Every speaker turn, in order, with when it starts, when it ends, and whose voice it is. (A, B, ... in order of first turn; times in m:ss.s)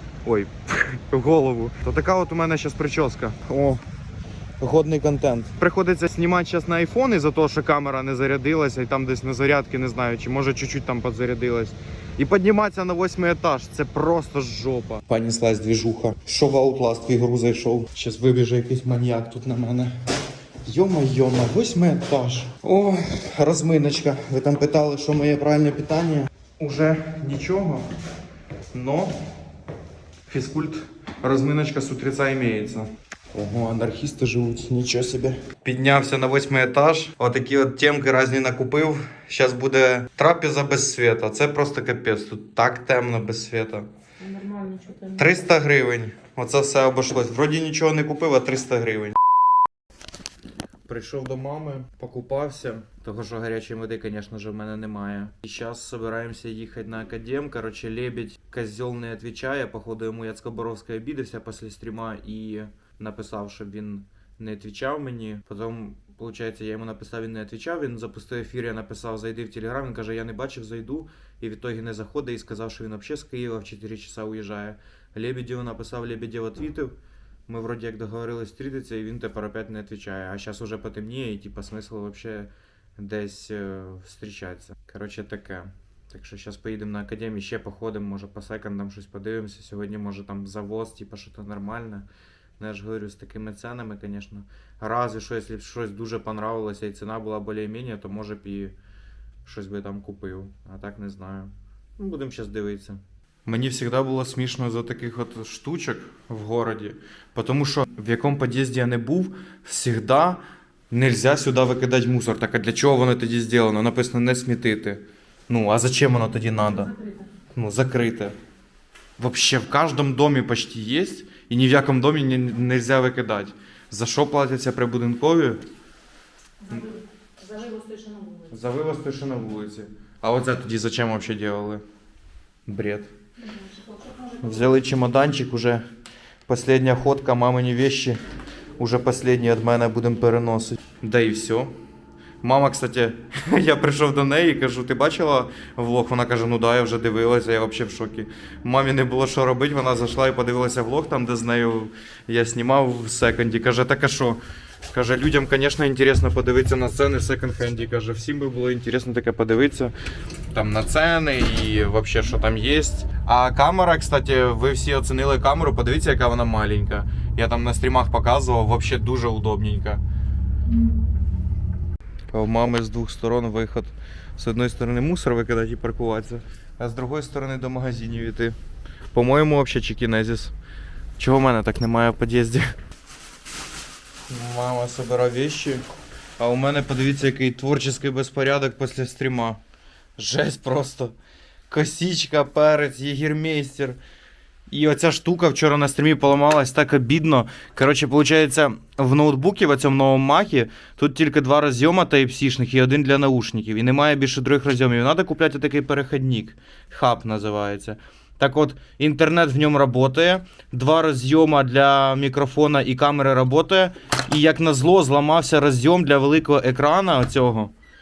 0:00.2-0:03.8 A
0:04.6-0:19.9 A
0:20.6-0:27.9 A
0:28.7-0:29.3 A
0:30.3-0:43.9 A
0:44.2-0:45.4 B
0:45.2-0:49.2 A
0:50.9-1:16.9 A
1:17.5-1:32.0 A
1:32.6-1:38.8 A
1:39.4-1:56.9 A
1:56.7-1:57.2 B
1:57.5-1:58.3 A
1:59.2-2:05.6 A
2:06.6-2:08.6 B
2:08.5-2:11.8 A
2:12.7-2:13.1 A
2:13.4-2:14.8 B
2:14.4-2:15.8 A
2:16.5-2:18.2 A
2:18.8-2:21.7 A
2:22.4-2:34.4 A
2:34.9-2:39.9 A
2:40.5-2:50.0 A
2:52.3-2:58.6 A
2:59.1-3:00.5 A
3:01.2-3:02.7 A
3:04.3-3:05.8 A
3:06.4-3:09.6 A
3:10.2-3:11.1 A
3:11.7-3:14.0 A
3:14.7-3:37.7 A